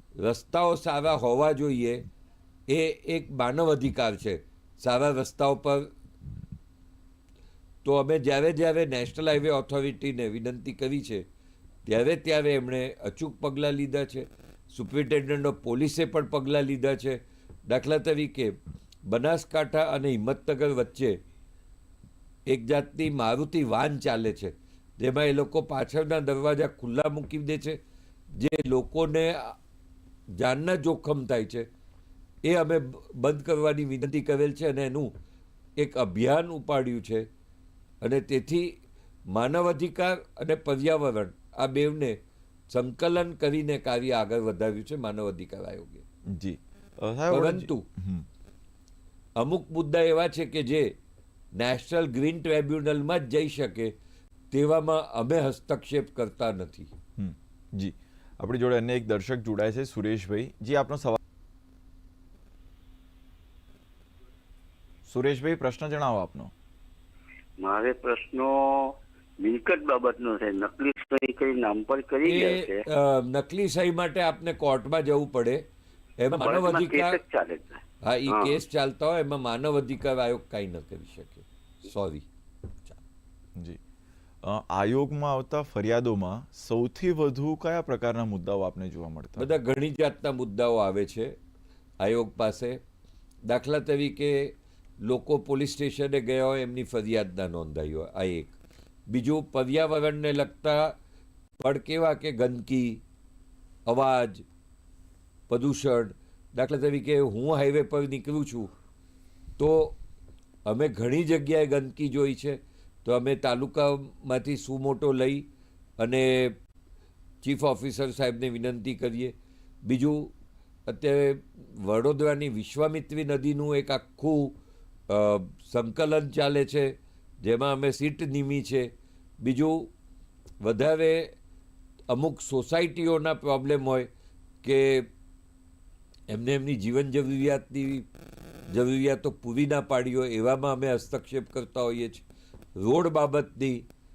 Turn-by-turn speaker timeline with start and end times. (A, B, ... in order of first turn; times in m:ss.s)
0:00.2-0:02.1 A
0:02.7-0:05.9 A
0:07.8-0:11.2 A
0:11.9-0:18.6 A
0:19.1-0:21.2 A
0:22.5-0:27.8 A
0:28.3-0:29.6 A
0:30.4-0:31.7 A
0:32.4-0:35.1 A
0:35.8-0:37.3 A
0:38.0-0:38.7 A
0:39.3-0:42.2 A
0:42.7-0:46.0 A
0:46.3-0:48.3 B
0:47.3-0:47.9 A
0:49.4-0:50.9 A
0:51.6-0:53.9 A
0:54.5-0:56.9 A
0:57.2-1:01.2 B
1:05.1-1:06.5 B
1:07.6-1:08.9 C
1:09.4-1:12.8 C
1:12.2-1:15.6 A
1:16.2-1:17.2 A
1:16.4-1:18.6 C
1:18.0-1:22.3 A
1:24.4-1:29.5 B
1:29.4-1:31.4 A
1:32.0-1:32.8 A
1:33.5-1:34.5 A
1:35.0-1:38.6 A
1:39.1-1:41.0 A
1:41.6-1:43.0 A
1:43.9-1:44.4 A
1:45.5-1:48.7 A
1:49.6-1:50.0 A
1:50.7-1:55.5 A
1:56.0-1:56.6 A
1:57.4-2:00.3 A
2:00.9-2:04.6 A
2:05.1-2:08.9 A
2:09.4-2:09.9 A
2:10.6-2:11.3 A
2:12.1-2:14.1 A
2:14.6-2:15.1 A
2:16.3-2:18.1 A
2:18.7-2:22.2 A
2:22.8-2:23.9 A